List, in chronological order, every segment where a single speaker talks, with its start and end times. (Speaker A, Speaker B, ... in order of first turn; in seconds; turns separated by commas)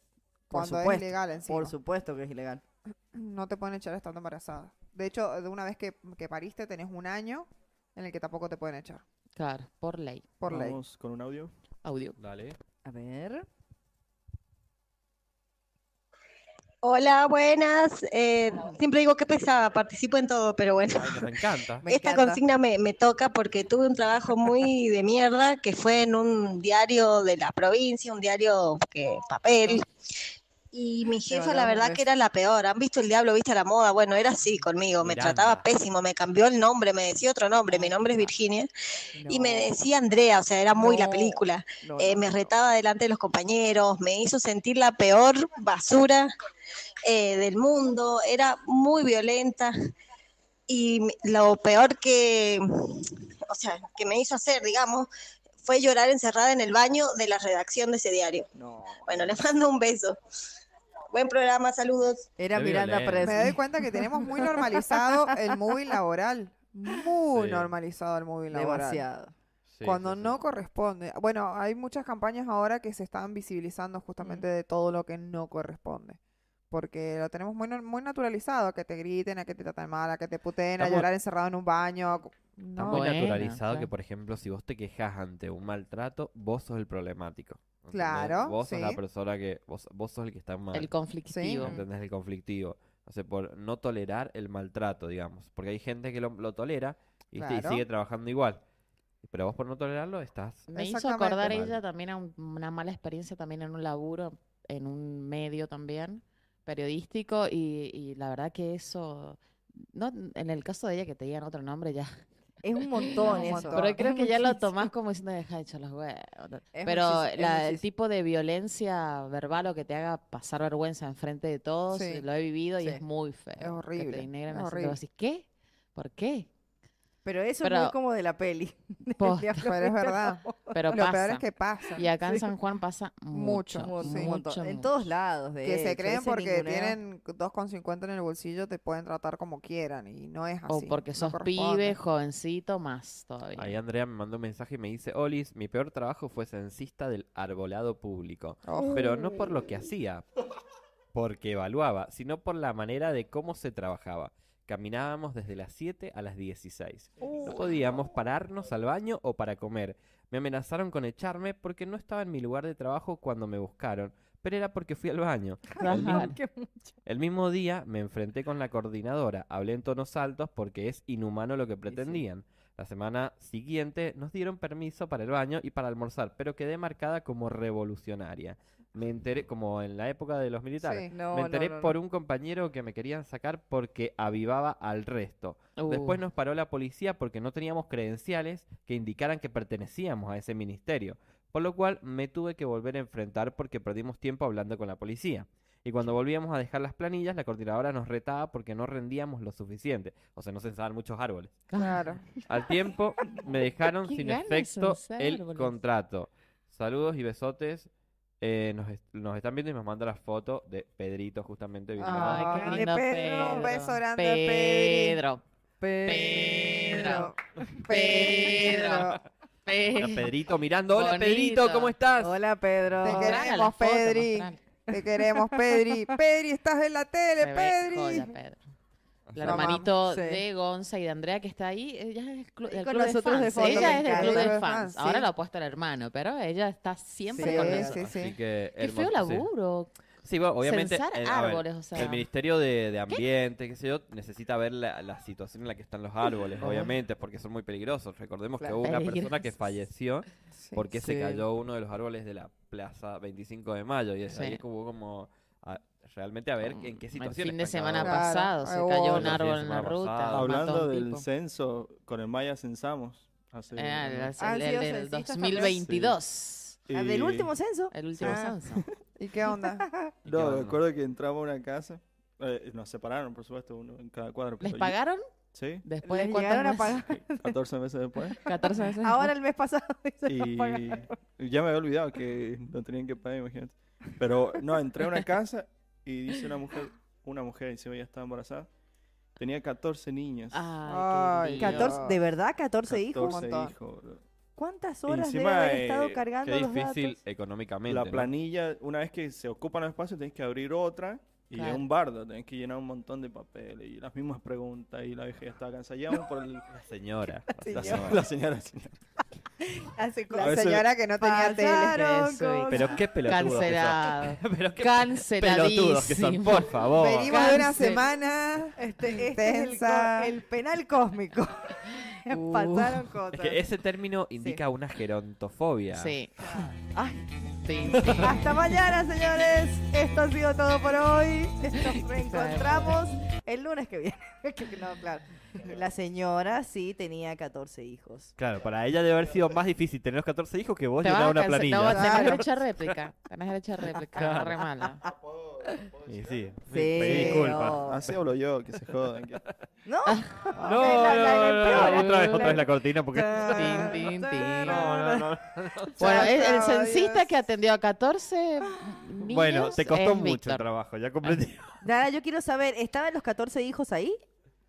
Speaker A: 0.5-1.8, Speaker B: 0.5-2.6, Speaker A: 3.1-9.0, Speaker C: 9.3-10.3, Speaker A: 10.4-10.8, Speaker D: 10.5-11.5, Speaker C: 11.8-12.2, Speaker E: 12.2-12.6, Speaker B: 12.8-13.4, Speaker F: 16.8-21.3, Speaker E: 21.0-21.9, Speaker B: 21.8-22.4, Speaker F: 21.9-29.9, Speaker F: 30.7-38.7, Speaker B: 31.3-32.0, Speaker E: 35.0-35.6, Speaker B: 37.7-38.3, Speaker B: 39.1-39.8, Speaker F: 39.3-46.3, Speaker B: 40.7-42.5, Speaker F: 47.0-49.7, Speaker F: 50.7-55.1, Speaker F: 55.6-58.5, Speaker B: 58.6-59.0, Speaker F: 59.0-60.2, Speaker F: 61.1-62.3, Speaker B: 62.4-65.3, Speaker E: 62.5-63.5, Speaker A: 63.2-69.0, Speaker E: 67.3-67.7, Speaker B: 68.5-69.3, Speaker E: 69.7-70.4, Speaker A: 69.8-76.2, Speaker A: 76.7-83.2, Speaker E: 80.8-81.1, Speaker E: 82.8-90.9, Speaker C: 82.8-83.9, Speaker A: 87.9-89.0, Speaker C: 90.7-91.8, Speaker A: 91.3-91.6, Speaker E: 91.6-98.6, Speaker A: 97.3-97.8, Speaker E: 99.2-100.7, Speaker C: 100.7-112.2, Speaker A: 100.7-101.6, Speaker E: 101.5-101.8, Speaker B: 112.6-114.8, Speaker C: 113.0-126.5, Speaker A: 113.1-114.0, Speaker B: 116.7-117.8, Speaker A: 121.9-122.2, Speaker A: 123.6-125.0, Speaker B: 127.2-131.1, Speaker C: 127.6-127.9, Speaker C: 129.2-129.6, Speaker A: 129.6-132.1, Speaker C: 130.7-131.4, Speaker C: 131.9-134.9, Speaker A: 133.3-134.3, Speaker B: 133.8-137.0, Speaker A: 135.6-142.0, Speaker C: 140.7-143.8, Speaker E: 143.6-150.2, Speaker A: 148.6-149.3, Speaker E: 151.1-166.3, Speaker B: 157.2-157.7, Speaker B: 165.7-166.9, Speaker C: 165.8-166.4, Speaker E: 167.1-201.6, Speaker B: 171.9-172.2, Speaker A: 180.8-181.1, Speaker B: 181.1-181.9, Speaker C: 185.8-186.2, Speaker C: 201.7-202.1, Speaker A: 201.8-202.3, Speaker E: 202.5-207.9, Speaker C: 204.0-205.8, Speaker E: 208.4-212.6, Speaker A: 212.0-215.2, Speaker C: 212.1-215.4, Speaker B: 212.2-213.7, Speaker B: 215.8-217.0, Speaker C: 216.1-217.3, Speaker A: 216.9-219.2, Speaker C: 217.9-219.1, Speaker C: 219.7-220.3, Speaker E: 219.9-222.4, Speaker C: 220.9-221.9, Speaker B: 222.2-223.4, Speaker A: 223.0-228.3, Speaker C: 223.0-224.6, Speaker B: 224.9-226.1, Speaker C: 227.4-228.6, Speaker E: 229.3-229.7, Speaker C: 229.3-238.0, Speaker A: 229.4-229.9, Speaker B: 229.5-230.4, Speaker B: 232.7-234.5, Speaker A: 233.6-235.3, Speaker B: 237.3-238.1, Speaker A: 237.4-238.3, Speaker E: 238.0-239.5, Speaker C: 238.8-239.9, Speaker E: 240.2-258.3, Speaker C: 240.6-242.2, Speaker B: 246.6-246.9, Speaker C: 246.6-246.9, Speaker C: 248.8-249.6, Speaker A: 250.6-250.8, Speaker B: 250.9-251.4, Speaker C: 254.3-254.6, Speaker C: 256.6-261.3, Speaker A: 258.0-259.3, Speaker E: 259.1-260.5, Speaker D: 260.3-264.3, Speaker C: 263.7-266.8, Speaker B: 264.4-265.8, Speaker D: 265.8-266.2, Speaker D: 266.9-267.5, Speaker B: 266.9-268.6, Speaker C: 267.9-268.8, Speaker D: 268.2-268.9, Speaker A: 269.2-269.9, Speaker B: 269.5-270.1, Speaker E: 270.2-270.8, Speaker D: 270.3-274.9, Speaker C: 274.6-275.2, Speaker D: 275.5-275.8, Speaker C: 275.8-277.1, Speaker B: 276.0-277.5, Speaker D: 277.4-278.4, Speaker B: 278.3-281.1, Speaker C: 278.4-279.3, Speaker D: 280.3-288.7, Speaker D: 289.4-290.7, Speaker C: 290.5-292.1, Speaker A: 290.9-292.2, Speaker B: 291.6-293.4, Speaker D: 292.9-294.2, Speaker A: 293.3-293.7, Speaker B: 294.6-297.2, Speaker D: 295.1-296.2, Speaker E: 296.4-298.3, Speaker D: 297.9-306.7, Speaker C: 301.6-301.8, Speaker E: 306.7-308.2, Speaker B: 307.6-308.2, Speaker D: 307.6-309.0, Speaker B: 309.6-313.0, Speaker A: 310.4-312.1, Speaker D: 310.4-310.9, Speaker C: 311.8-318.0, Speaker E: 312.7-317.5, Speaker A: 316.9-320.3, Speaker B: 318.8-323.7, Speaker C: 322.3-323.1, Speaker E: 323.3-326.1, Speaker C: 325.9-326.3, Speaker B: 326.4-327.3, Speaker C: 327.6-328.3, Speaker B: 327.9-338.3, Speaker E: 327.9-328.4, Speaker C: 332.3-333.0, Speaker E: 338.4-342.4, Speaker C: 341.0-345.0, Speaker B: 341.9-342.4, Speaker E: 344.1-344.6, Speaker E: 346.1-347.9, Speaker B: 346.7-348.0, Speaker D: 347.8-349.4, Speaker B: 349.8-355.2, Speaker C: 350.1-352.6, Speaker E: 350.6-354.0, Speaker C: 353.4-355.0, Speaker E: 354.5-356.3, Speaker C: 356.0-360.6, Speaker A: 356.0-357.3, Speaker B: 356.0-356.3, Speaker E: 359.3-361.8, Speaker B: 361.8-364.2